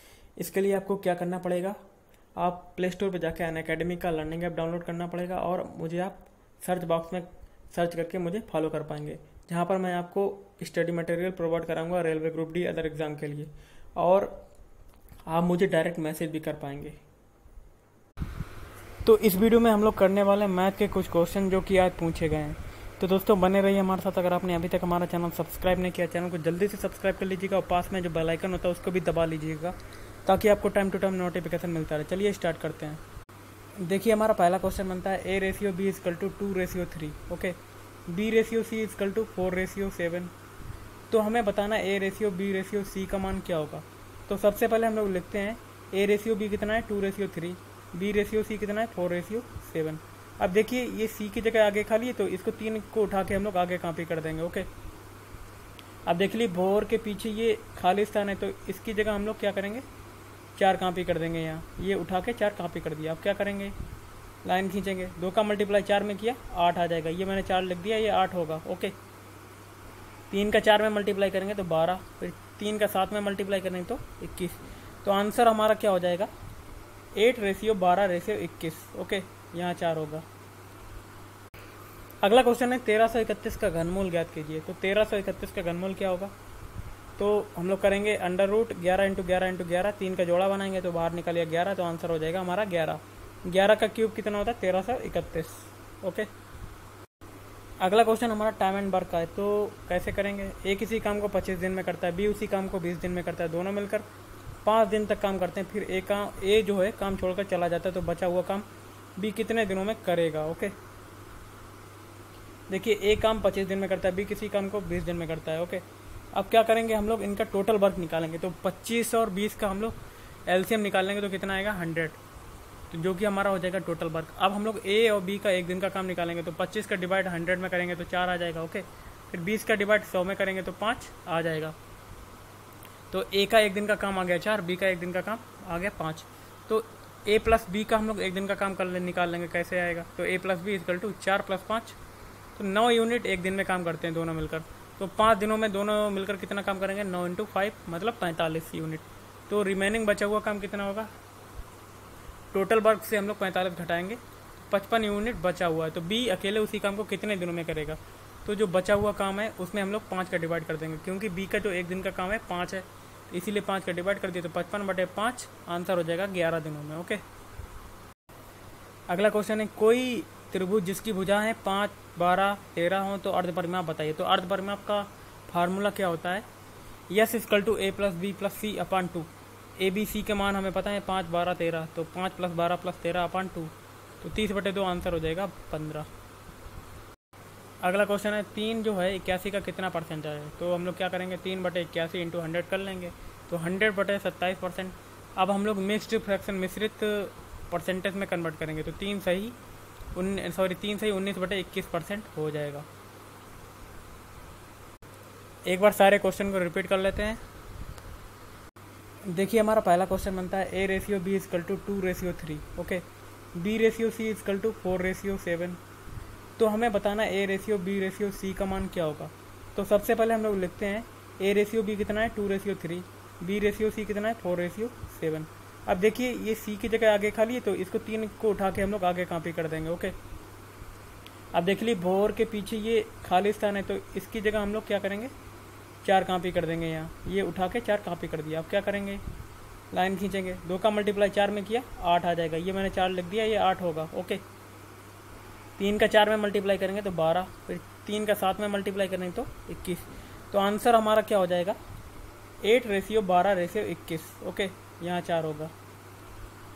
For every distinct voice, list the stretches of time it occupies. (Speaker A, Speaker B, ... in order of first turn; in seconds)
Speaker A: 0.4-1.8, 2.4-14.3, 15.3-17.0, 19.0-33.0, 33.8-37.5, 38.1-40.3, 41.1-54.7, 56.0-59.8, 60.5-63.7, 64.4-69.0, 70.3-76.3, 77.2-80.2, 82.2-86.3, 87.2-96.3, 97.8-104.0, 104.6-108.7, 109.2-110.7, 112.7-120.0, 120.5-122.2, 122.9-131.7, 133.1-142.0, 142.6-151.1, 152.5-167.2, 169.1-176.4, 177.1-186.1, 187.8-199.6, 200.1-202.8, 205.7-207.4, 209.3-213.0, 213.5-215.8, 216.6-230.1, 231.5-235.3, 236.0-239.2, 239.9-244.4, 245.8-251.8, 252.6-255.7